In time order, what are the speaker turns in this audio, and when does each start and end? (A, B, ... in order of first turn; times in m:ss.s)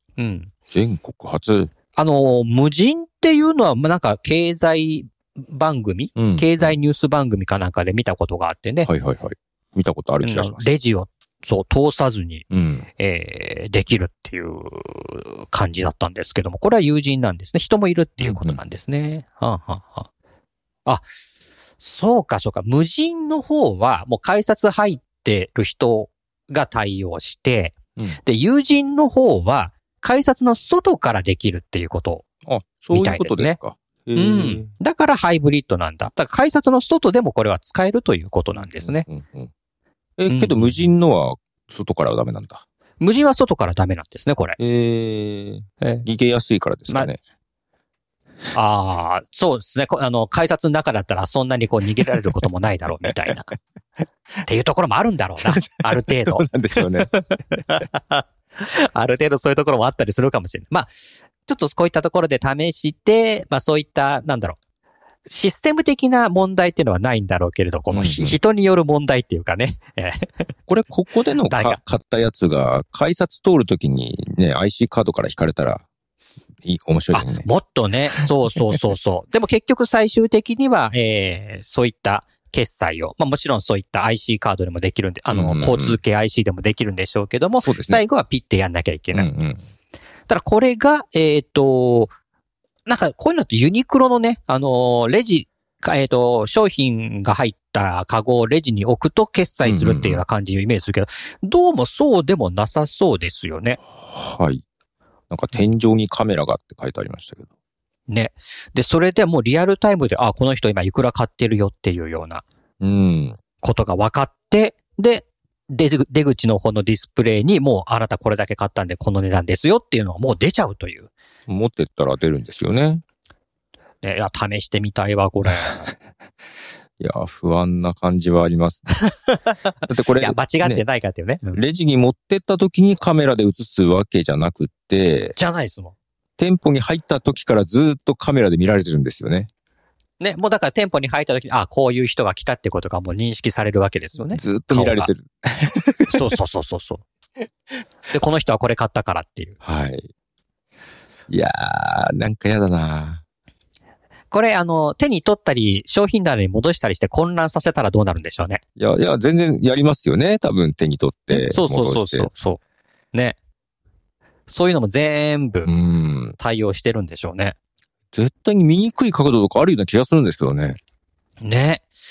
0:00.2-0:00.5 A
0:00.7-0:01.7 B
0:02.0-0:08.9 A
0:06.2-0:06.7 B
0:08.8-0:10.7 B
0:10.2-0:12.4 A
0:12.5-0:12.8 B
0:13.0-0:20.1 A
0:18.2-0:18.6 B
0:21.8-0:32.2 A
0:32.4-0:34.7 B
0:32.9-0:33.6 A
0:34.1-0:39.0 A
0:38.6-0:39.5 B
0:40.2-0:42.6 B
0:40.3-0:40.7 A
0:43.0-0:44.6 A
0:44.6-0:47.2 B
0:45.8-0:46.0 A
0:48.5-0:53.5 A
0:54.4-1:00.9 A
0:55.5-0:57.1 B
1:01.4-1:04.6 A
1:05.3-1:10.5 A
1:07.9-1:08.4 B
1:10.7-1:15.8 B
1:11.5-1:11.8 A
1:16.6-1:17.5 B
1:17.1-1:29.3 A
1:25.3-1:26.0 B
1:27.6-1:28.0 B
1:29.1-1:29.6 B
1:30.3-1:32.1 A
1:32.8-1:43.8 A
1:39.6-1:40.2 B
1:43.9-1:44.6 B
1:45.3-1:47.5 B
1:48.1-1:52.4 A
1:52.8-1:53.4 B
1:53.6-2:01.1 A
2:01.5-2:03.0 B
2:04.0-2:05.9 A
2:07.0-2:08.9 B
2:09.1-2:11.6 A
2:09.8-2:10.8 B
2:11.5-2:15.3 B
2:15.4-2:15.9 A
2:16.4-2:19.5 B
2:20.2-2:25.1 A
2:24.3-2:26.2 B
2:26.1-2:27.0 A
2:28.1-2:29.6 A
2:29.6-2:30.1 B
2:31.3-2:33.2 B
2:34.3-2:38.6 A
2:38.8-2:42.3 B
2:41.3-2:42.6 A
2:44.5-2:45.7 A
2:45.6-2:46.4 B
2:46.4-2:47.5 A
2:48.1-2:50.8 B
2:51.4-2:51.9 A